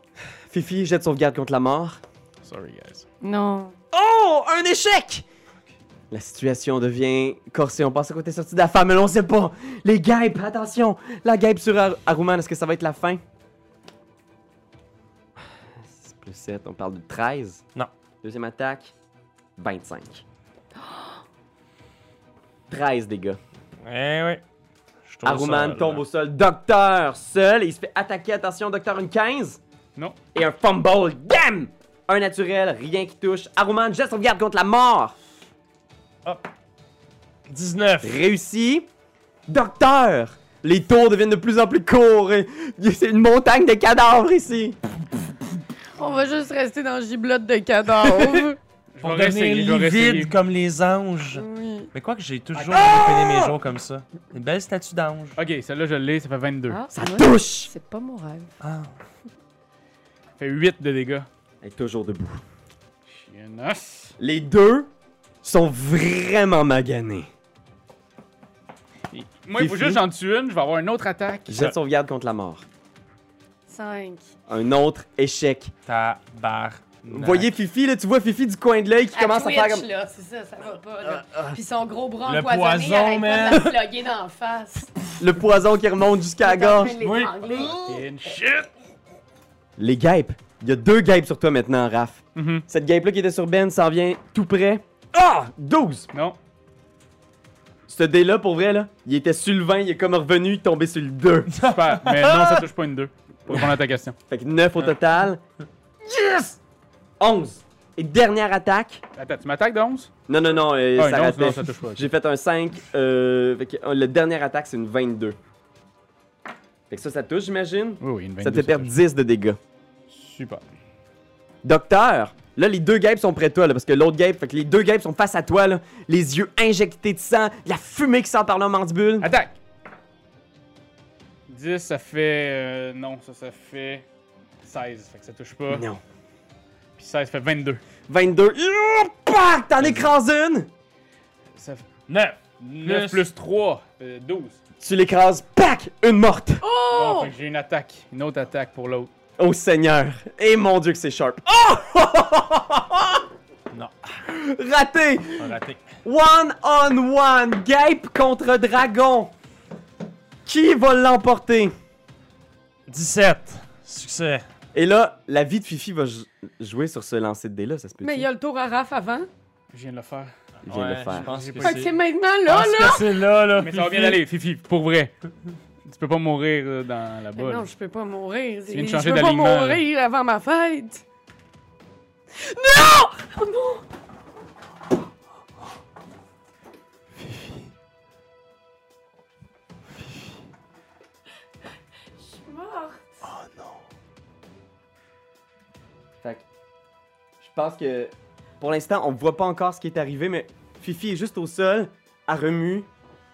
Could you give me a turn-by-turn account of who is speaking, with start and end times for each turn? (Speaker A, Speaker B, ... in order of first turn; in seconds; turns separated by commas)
Speaker A: 0.5-2.0, Speaker B: 2.4-3.1, Speaker C: 3.2-3.8, Speaker A: 3.9-5.2, Speaker A: 6.1-13.2, Speaker A: 15.9-17.6, Speaker A: 18.2-18.9, Speaker A: 19.6-20.2, Speaker A: 22.7-23.4, Speaker D: 23.8-24.4, Speaker D: 25.1-26.0, Speaker A: 25.2-29.6, Speaker A: 30.3-35.1, Speaker D: 37.5-38.2, Speaker A: 38.0-38.9, Speaker A: 39.5-44.8, Speaker C: 46.0-48.6, Speaker B: 49.0-50.3, Speaker D: 49.0-55.4, Speaker C: 51.4-51.9, Speaker B: 52.6-52.8, Speaker A: 52.7-53.6, Speaker B: 55.4-56.8, Speaker C: 56.7-58.5, Speaker A: 56.9-57.7, Speaker D: 58.6-58.9, Speaker B: 60.4-61.3, Speaker A: 61.6-62.4, Speaker B: 63.1-64.1, Speaker A: 64.2-64.9, Speaker A: 65.4-67.3, Speaker B: 69.1-71.6, Speaker A: 69.5-70.0, Speaker A: 71.5-72.7, Speaker C: 73.7-74.3, Speaker A: 74.5-75.7, Speaker D: 75.9-77.5, Speaker A: 77.1-79.9, Speaker C: 79.2-84.8, Speaker D: 82.2-83.8, Speaker A: 85.2-87.0, Speaker C: 86.4-88.0, Speaker D: 87.0-87.9, Speaker B: 87.9-88.7, Speaker A: 89.8-96.1, Speaker B: 92.4-92.7, Speaker B: 96.1-96.4, Speaker A: 97.9-101.6, Speaker D: 101.5-102.7, Speaker B: 101.6-104.2, Speaker A: 104.3-105.4, Speaker A: 106.0-106.6, Speaker A: 107.2-109.0, Speaker B: 109.2-110.1, Speaker A: 110.3-115.4, Speaker B: 111.0-112.1, Speaker A: 116.9-119.6, Speaker B: 118.0-118.9, Speaker B: 120.1-120.6, Speaker A: 121.6-129.3, Speaker B: 129.2-129.6, Speaker B: 131.5-134.1, Speaker B: 134.6-135.9, Speaker A: 135.7-136.0, Speaker B: 137.0-137.8, Speaker A: 138.1-140.7, Speaker B: 141.5-141.9, Speaker D: 142.1-143.3, Speaker B: 142.8-144.6, Speaker A: 144.8-146.6, Speaker C: 146.6-147.3, Speaker B: 146.9-149.1, Speaker A: 149.4-153.3, Speaker A: 154.3-159.3, Speaker D: 155.4-155.8, Speaker A: 160.4-161.7, Speaker D: 162.9-164.4, Speaker A: 164.7-168.3, Speaker C: 168.0-169.3, Speaker B: 169.7-170.3, Speaker A: 170.7-171.4, Speaker D: 170.7-174.2, Speaker B: 171.1-171.9, Speaker C: 171.6-173.1, Speaker B: 173.6-175.1, Speaker B: 175.8-177.7, Speaker C: 177.3-181.0, Speaker B: 178.7-179.8, Speaker C: 182.3-183.8, Speaker C: 192.2-193.2, Speaker D: 193.4-193.7, Speaker A: 197.4-202.9